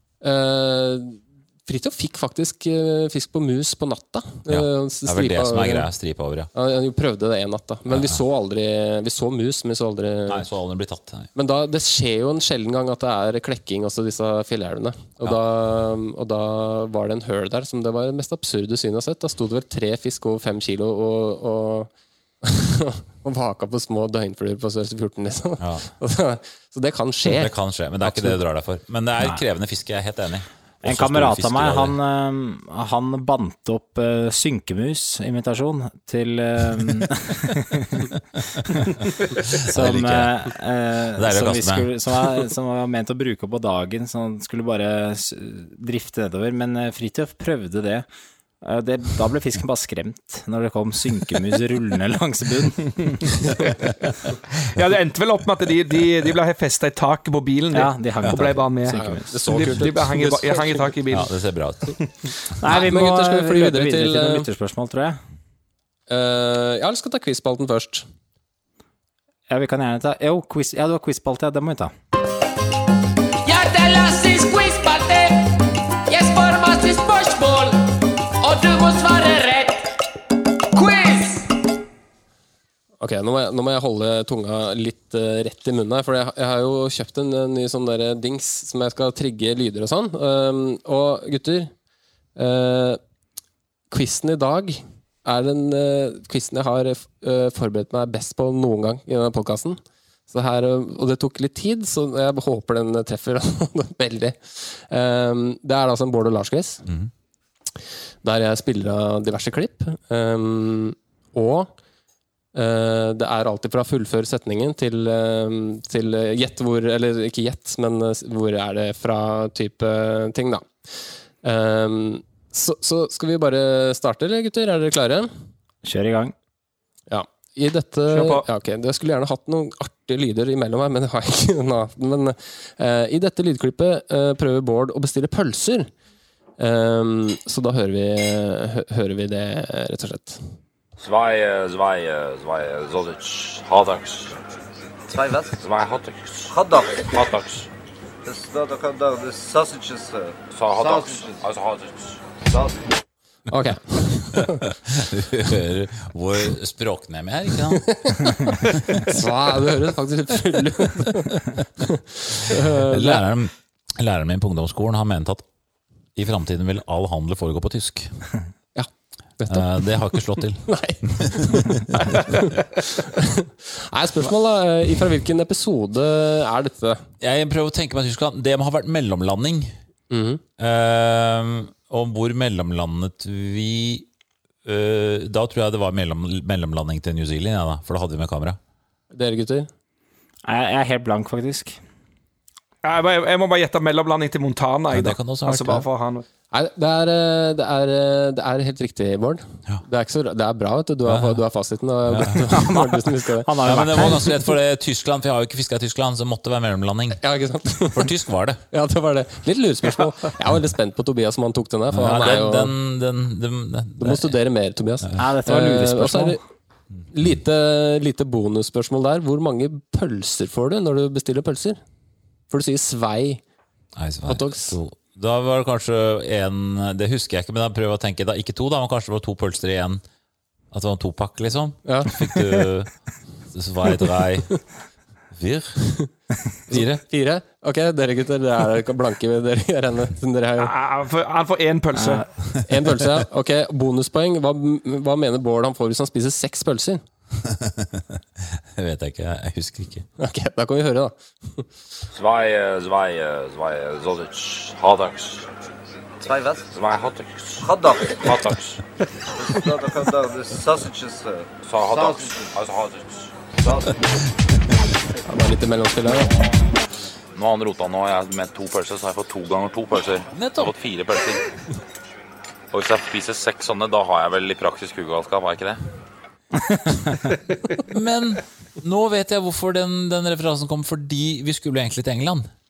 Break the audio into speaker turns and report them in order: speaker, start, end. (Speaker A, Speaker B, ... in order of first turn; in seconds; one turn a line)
Speaker A: 0.2-5.9
Speaker B: 4.5-6.5
Speaker A: 6.5-10.4
Speaker B: 7.9-8.2
Speaker B: 10.3-11.3
Speaker A: 11.3-21.9
Speaker A: 22.4-27.5
Speaker B: 25.6-25.9
Speaker B: 27.3-31.9
Speaker A: 28.0-28.4
Speaker C: 30.8-38.1
Speaker C: 38.7-48.1
Speaker B: 39.4-40.5
Speaker B: 41.2-42.4
Speaker C: 48.6-53.3
Speaker D: 54.8-61.3
Speaker C: 57.7-60.0
Speaker B: 58.2-58.5
Speaker A: 58.9-60.8
Speaker B: 61.1-62.0
Speaker C: 62.6-65.2
Speaker A: 62.7-64.5
Speaker A: 66.1-68.1
Speaker C: 69.5-71.9
Speaker E: 73.4-79.9
Speaker E: 80.7-81.6
Speaker A: 83.0-91.7
Speaker A: 92.4-93.0
Speaker A: 93.9-106.8
Speaker B: 106.9-107.1
Speaker A: 108.2-111.7
Speaker A: 112.5-125.3
Speaker C: 125.8-126.3
Speaker A: 127.1-135.9
Speaker D: 128.1-128.4
Speaker A: 136.6-140.4
Speaker F: 141.0-144.4
Speaker G: 145.1-145.6
Speaker F: 145.6-147.7
Speaker G: 146.5-147.2
Speaker G: 148.2-151.4
Speaker F: 150.5-152.2
Speaker G: 152.5-152.9
Speaker A: 153.5-154.6
Speaker B: 154.3-159.1
Speaker A: 157.7-163.2
Speaker B: 162.5-165.4
Speaker B: 166.2-168.2
Speaker A: 168.8-177.0
Speaker B: 169.5-172.4
Speaker B: 177.2-179.8
Speaker A: 180.1-180.4
Speaker B: 180.6-184.1
Speaker B: 184.7-188.6
Speaker A: 189.1-189.7
Speaker C: 190.4-191.8
Speaker D: 192.8-196.3
Speaker B: 194.9-195.9
Speaker A: 196.5-203.5
Speaker B: 201.1-201.4
Speaker B: 202.1-202.8
Speaker C: 203.4-204.4
Speaker B: 203.6-207.2
Speaker A: 207.2-208.1
Speaker B: 207.9-208.6
Speaker A: 208.7-212.7
Speaker B: 211.9-214.4
Speaker A: 214.0-216.4
Speaker C: 215.2-216.4
Speaker A: 217.1-221.8
Speaker A: 222.5-223.4
Speaker B: 224.0-230.0
Speaker A: 224.3-224.8
Speaker B: 230.7-234.6
Speaker A: 231.8-232.2
Speaker B: 235.3-235.9
Speaker B: 236.7-237.0
Speaker A: 236.7-240.7
Speaker D: 240.6-242.3
Speaker C: 241.9-242.2
Speaker A: 242.7-247.0
Speaker B: 247.4-248.1
Speaker B: 248.8-250.1
Speaker A: 250.2-251.7
Speaker F: 252.1-255.5
Speaker G: 256.2-256.7
Speaker F: 256.7-258.8
Speaker G: 257.6-258.4
Speaker G: 259.4-262.5
Speaker F: 261.6-263.3
Speaker G: 263.6-264.1
Speaker A: 265.3-266.3
Speaker F: 267.4-271.4
Speaker B: 270.3-270.9
Speaker B: 272.7-275.8
Speaker F: 275.1-275.4
Speaker B: 277.7-282.5